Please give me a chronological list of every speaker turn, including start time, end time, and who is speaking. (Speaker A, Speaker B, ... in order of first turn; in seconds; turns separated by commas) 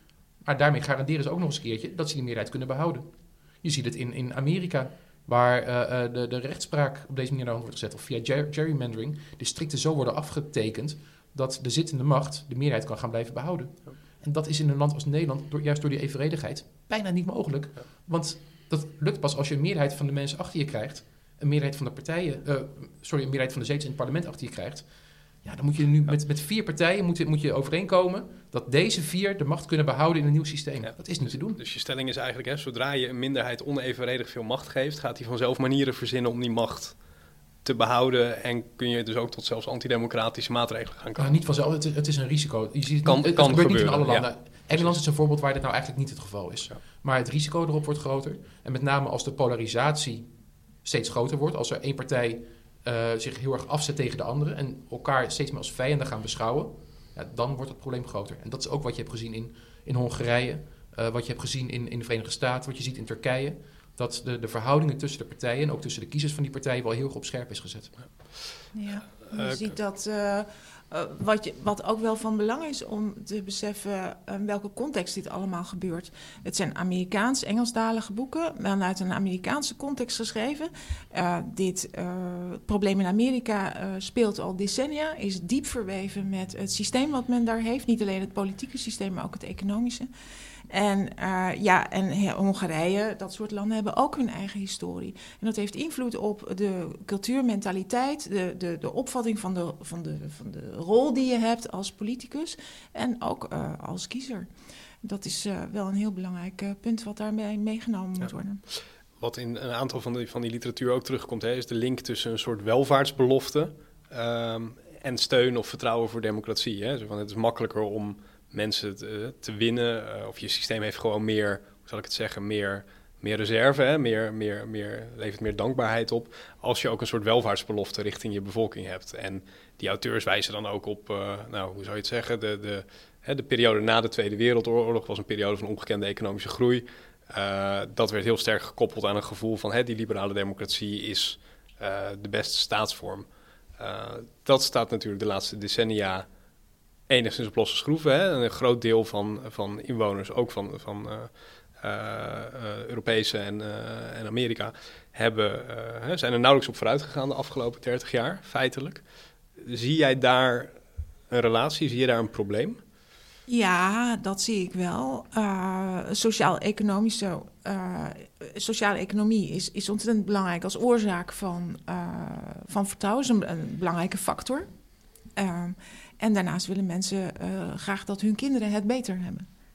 Speaker A: 0.4-31.6, Speaker B: 30.8-41.3, Speaker A: 41.1-68.3, Speaker B: 43.0-45.0, Speaker B: 68.0-69.8, Speaker C: 68.7-90.1, Speaker C: 90.7-104.5, Speaker C: 105.0-108.6, Speaker B: 108.2-146.4, Speaker B: 147.1-162.8, Speaker C: 163.5-174.7, Speaker C: 175.3-179.5